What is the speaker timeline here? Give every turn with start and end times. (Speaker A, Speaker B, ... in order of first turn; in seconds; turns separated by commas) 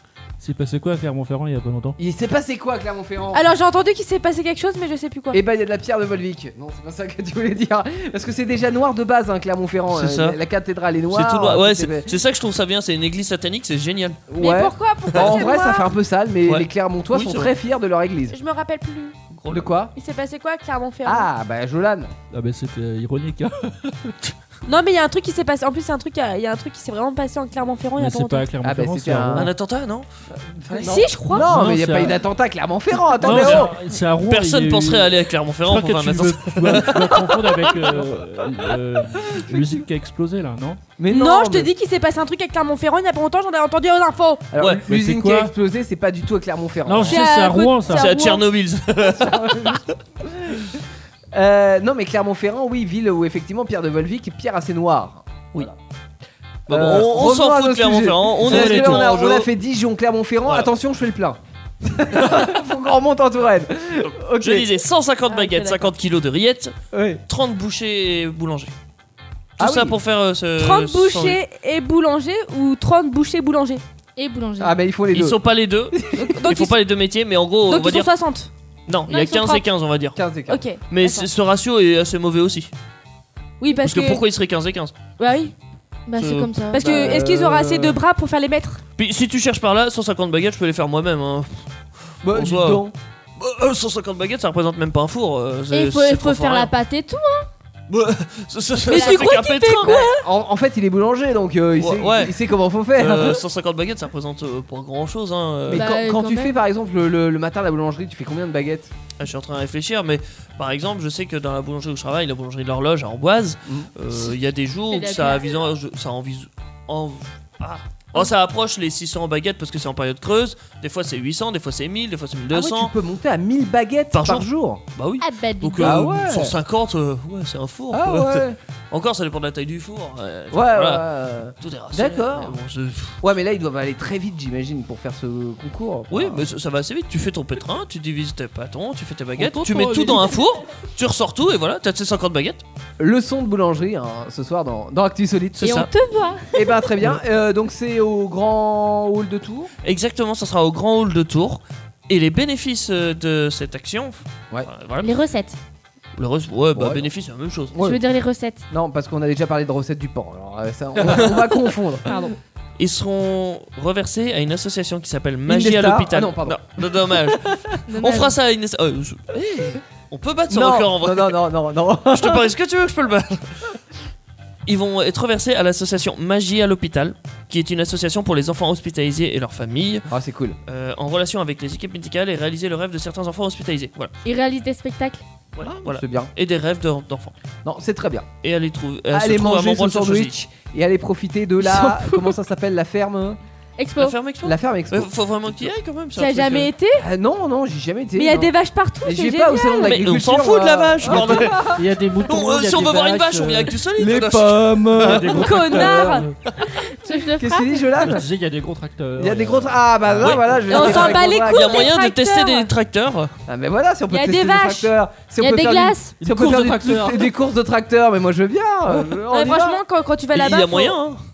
Speaker A: 0.4-2.0, Speaker B: 2.0-3.5, Speaker C: 3.3-5.4, Speaker B: 5.3-12.1, Speaker D: 9.9-10.4, Speaker D: 11.1-14.2, Speaker B: 14.3-18.4, Speaker C: 14.4-15.9, Speaker D: 15.1-15.5, Speaker D: 16.4-17.5, Speaker C: 18.3-19.2, Speaker D: 19.3-19.7, Speaker B: 19.5-19.9, Speaker C: 20.0-21.3, Speaker B: 21.0-22.1, Speaker A: 22.3-24.3, Speaker C: 24.7-28.5, Speaker A: 28.0-29.5, Speaker B: 28.6-29.5, Speaker D: 29.3-30.1, Speaker B: 30.3-33.7, Speaker C: 30.7-31.5, Speaker A: 31.3-32.2, Speaker A: 33.2-35.1, Speaker D: 33.2-33.7, Speaker D: 34.2-37.2, Speaker A: 35.7-40.8, Speaker B: 37.0-37.9, Speaker B: 39.4-39.8, Speaker B: 41.0-41.7, Speaker C: 41.1-44.5, Speaker B: 44.5-47.2, Speaker A: 44.9-45.5, Speaker A: 46.9-48.1, Speaker C: 47.1-48.4, Speaker D: 47.9-49.9, Speaker B: 49.0-50.6, Speaker B: 51.3-55.8, Speaker B: 56.7-64.7, Speaker D: 56.7-59.5, Speaker A: 58.5-59.0, Speaker D: 64.4-66.7, Speaker C: 65.3-65.9, Speaker B: 66.9-67.2, Speaker D: 67.3-68.7, Speaker B: 69.6-70.0, Speaker D: 69.6-71.4, Speaker C: 70.6-73.8, Speaker E: 74.2-74.8, Speaker B: 74.6-75.4, Speaker D: 75.1-78.1, Speaker B: 75.9-76.4, Speaker C: 76.2-76.7, Speaker C: 77.7-78.5, Speaker D: 78.9-80.2, Speaker E: 79.1-79.6, Speaker B: 80.2-80.6, Speaker C: 80.5-81.3, Speaker D: 80.9-82.7, Speaker C: 83.6-84.2, Speaker D: 83.7-84.9, Speaker C: 85.2-85.5, Speaker E: 86.1-87.1, Speaker D: 86.2-86.5, Speaker C: 86.7-88.8, Speaker B: 86.8-88.0, Speaker D: 89.0-91.7, Speaker D: 92.2-92.8, Speaker B: 92.2-92.9, Speaker D: 93.4-96.7, Speaker E: 95.7-97.5, Speaker D: 97.9-100.0, Speaker C: 98.9-100.2, Speaker E: 99.0-99.3, Speaker B: 99.8-103.4, Speaker D: 101.8-102.4, Speaker D: 103.0-105.9, Speaker B: 105.7-108.9, Speaker E: 105.7-106.5, Speaker D: 109.2-122.9, Speaker E: 114.9-115.6, Speaker B: 122.5-124.8, Speaker D: 124.1-131.1, Speaker E: 125.2-126.1, Speaker B: 125.8-126.5, Speaker B: 127.9-128.6, Speaker B: 130.5-132.6, Speaker D: 131.6-133.2, Speaker B: 133.2-136.4, Speaker D: 136.1-142.6, Speaker A: 139.4-140.4, Speaker B: 143.0-145.8, Speaker D: 145.6-145.9, Speaker E: 145.6-146.5, Speaker B: 146.5-149.7, Speaker D: 149.8-155.1, Speaker E: 155.0-155.6, Speaker D: 156.2-157.8, Speaker B: 156.7-157.1, Speaker B: 157.7-158.0, Speaker E: 157.8-158.6, Speaker B: 158.7-162.3, Speaker D: 161.0-161.6, Speaker E: 162.1-162.3, Speaker D: 162.8-171.4, Speaker B: 165.5-167.8, Speaker E: 167.9-168.3, Speaker B: 170.5-172.5, Speaker D: 172.1-173.7, Speaker D: 174.7-180.1, Speaker B: 180.1-180.6, Speaker D: 180.7-184.1, Speaker E: 184.2-185.2, Speaker D: 185.6-187.3, Speaker B: 185.6-186.3, Speaker B: 187.6-188.3, Speaker D: 188.4-190.3, Speaker B: 189.1-193.4, Speaker E: 193.8-194.1, Speaker D: 194.0-196.7, Speaker B: 194.4-195.7, Speaker C: 196.2-197.1, Speaker B: 197.0-201.8, Speaker C: 198.2-199.9, Speaker D: 199.8-205.4, Speaker A: 201.6-203.7, Speaker B: 204.0-206.3, Speaker A: 204.9-206.4, Speaker C: 205.3-206.3, Speaker E: 206.8-207.8, Speaker B: 207.3-208.2, Speaker A: 208.0-209.8, Speaker B: 209.2-211.8, Speaker D: 210.2-213.3, Speaker C: 210.7-212.7, Speaker B: 213.5-219.8, Speaker C: 214.1-214.9, Speaker E: 215.4-216.1, Speaker A: 216.2-217.3, Speaker C: 219.3-221.0, Speaker D: 220.3-221.2